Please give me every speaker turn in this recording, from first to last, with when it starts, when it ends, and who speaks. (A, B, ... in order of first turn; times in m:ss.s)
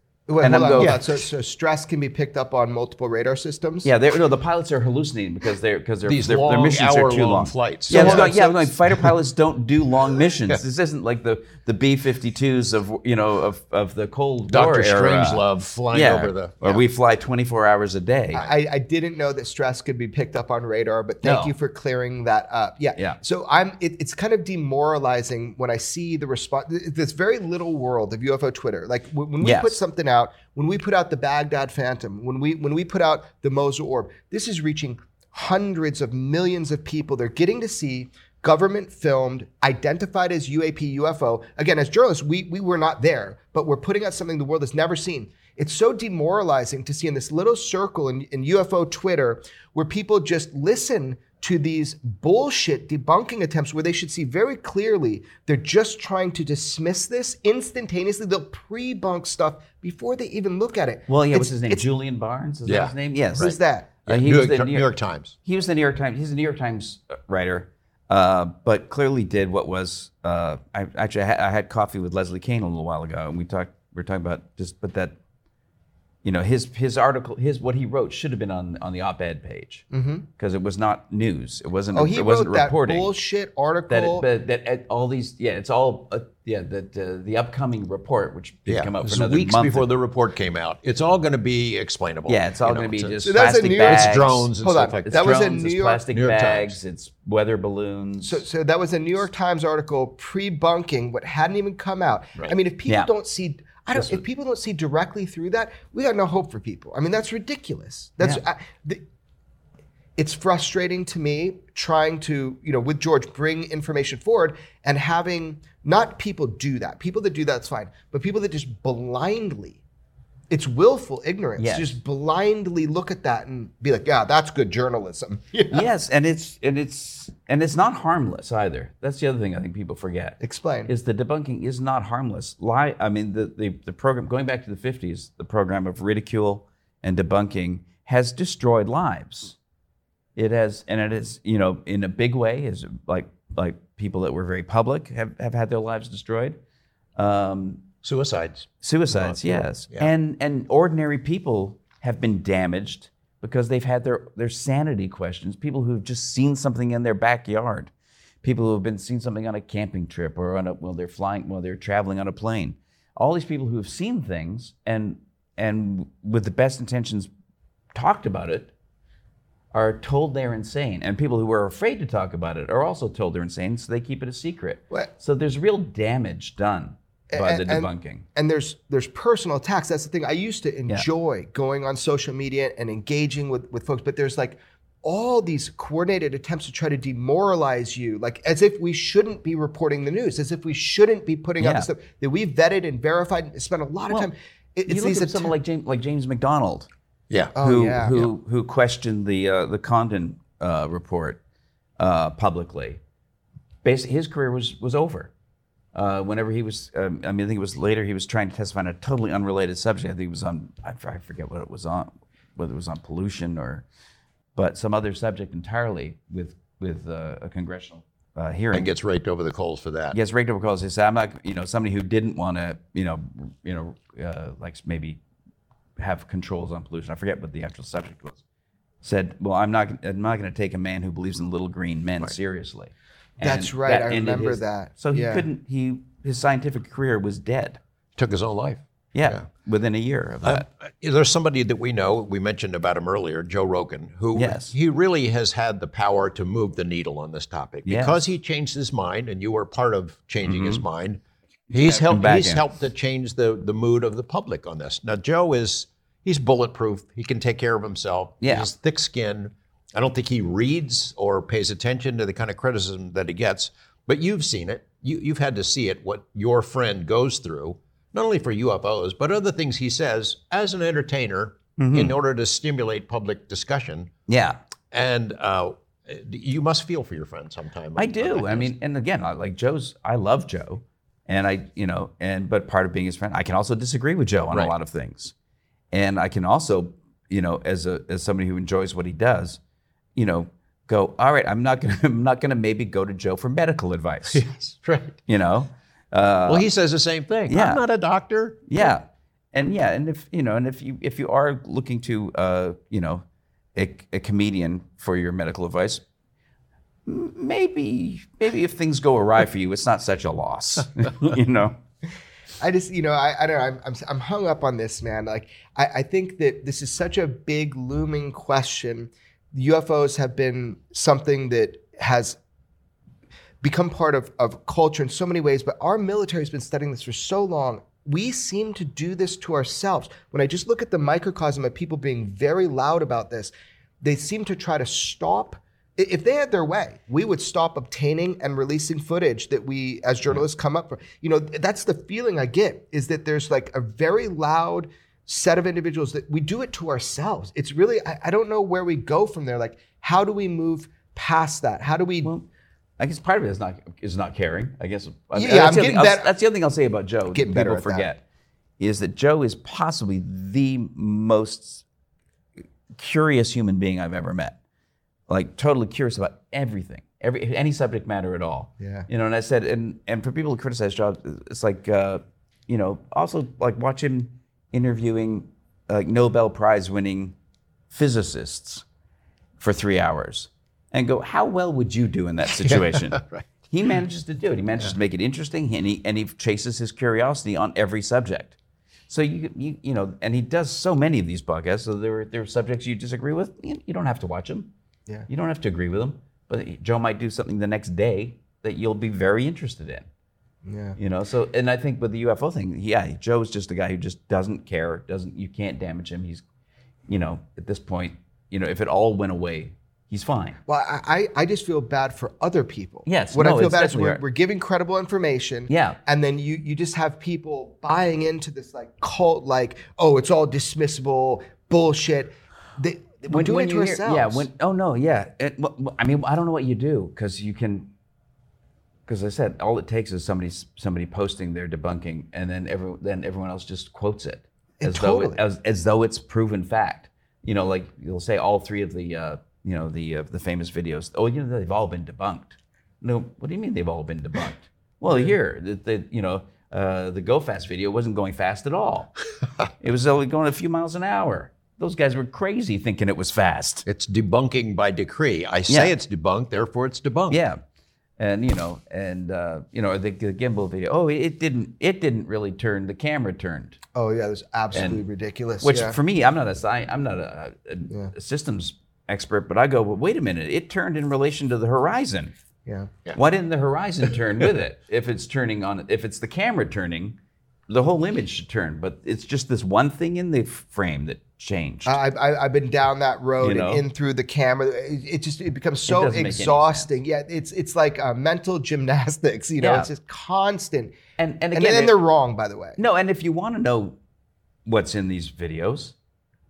0:00.3-0:03.9 A
0:00.4-0:01.1 B
0:03.8-0:18.5 B
0:06.1-0:09.1 C
0:07.9-0:08.3 A
0:14.5-0:16.8 C
0:18.3-1:01.9 A
0:21.2-0:21.5 B
0:29.4-0:29.8 B
1:01.1-1:03.5 B
1:02.7-1:05.4 C
1:03.4-1:03.9 A
1:04.1-1:15.2 B
1:16.2-1:19.9 B
1:19.9-1:20.3 A
1:20.4-1:23.1 B
1:21.9-1:24.3 A
1:23.9-1:29.9 B
1:28.7-1:33.2 C
1:32.3-1:34.5 B
1:33.2-1:36.0 A
1:33.8-1:35.4 C
1:35.0-1:38.4 B
1:36.1-1:36.8 C
1:38.2-1:49.0 A
1:44.0-1:44.2 B
1:50.2-1:59.8 A
2:00.5-2:05.9 A
2:01.6-2:02.0 B
2:05.7-2:19.6 B
2:10.4-2:10.9 A
2:20.4-2:26.6 B
2:27.2-2:27.8 B
2:28.0-2:30.1 C
2:28.8-2:37.9 B
2:38.4-2:47.3 B
2:47.9-2:48.7 B
2:49.7-2:58.3 B
2:57.3-3:15.5 A
3:11.6-3:11.9 B
3:14.9-3:16.9 B
3:17.3-3:17.6 C
3:17.6-3:18.2 A
3:17.6-3:21.4 B
3:22.0-3:23.0 B
3:23.8-3:25.3 B
3:25.9-3:33.8 B
3:34.6-3:38.9 B
3:38.7-3:40.2 C
3:40.1-3:45.2 B
3:46.0-3:48.4 B
3:49.0-3:57.8 B
3:53.4-3:55.5 A
3:58.2-3:59.5 C
3:59.1-4:00.7 B
4:00.4-4:34.1 C
4:04.4-4:04.7 B
4:07.8-4:08.2 B
4:10.4-4:10.8 B
4:11.9-4:12.6 B
4:18.4-4:18.7 B
4:31.8-4:32.2 B
4:34.3-4:34.6 B
4:34.9-4:38.7 C
4:38.0-4:45.3 B
4:45.9-4:49.6 B
4:50.2-4:54.5 B
4:54.3-4:55.2 C
4:55.3-4:56.7 B
4:56.5-4:58.9 C
4:57.5-4:57.8 B
4:58.7-5:03.2 B
5:03.8-5:06.0 B
5:07.1-5:11.8 B
5:12.6-5:22.4 A
5:23.6-5:52.3 A
5:53.0-5:58.2 B
5:55.4-5:56.3 A
5:57.3-5:58.1 A
5:58.8-6:01.8 B
6:03.0-6:04.6 B
6:05.3-6:17.4 B
6:08.8-6:09.1 A
6:17.9-6:18.8 B
6:19.6-6:28.6 B
6:22.6-6:23.5 C
6:29.1-6:34.7 B
6:35.3-6:40.1 B
6:40.6-6:41.0 A
6:41.0-6:46.4 B
6:47.1-6:50.6 B
6:50.7-7:04.5 A
6:53.1-6:54.2 B
6:55.7-6:56.0 B
7:03.3-7:07.9 B
7:09.1-7:29.1 B
7:14.8-7:15.4 A
7:25.1-7:25.3 A
7:29.8-7:33.8 B
7:33.9-7:37.4 C
7:35.7-7:35.9 B
7:37.3-7:37.6 B
7:38.2-7:43.8 B
7:43.9-7:46.0 A
7:44.7-7:45.0 B
7:45.6-7:52.3 B
7:52.7-7:52.9 A
7:53.2-7:57.2 B
7:57.7-8:01.9 B
8:01.9-8:11.0 A
8:03.4-8:03.8 B
8:05.9-8:06.9 B
8:09.6-8:09.9 B
8:11.2-8:11.9 B
8:11.5-8:12.8 A
8:12.8-8:14.0 B
8:14.7-8:16.0 B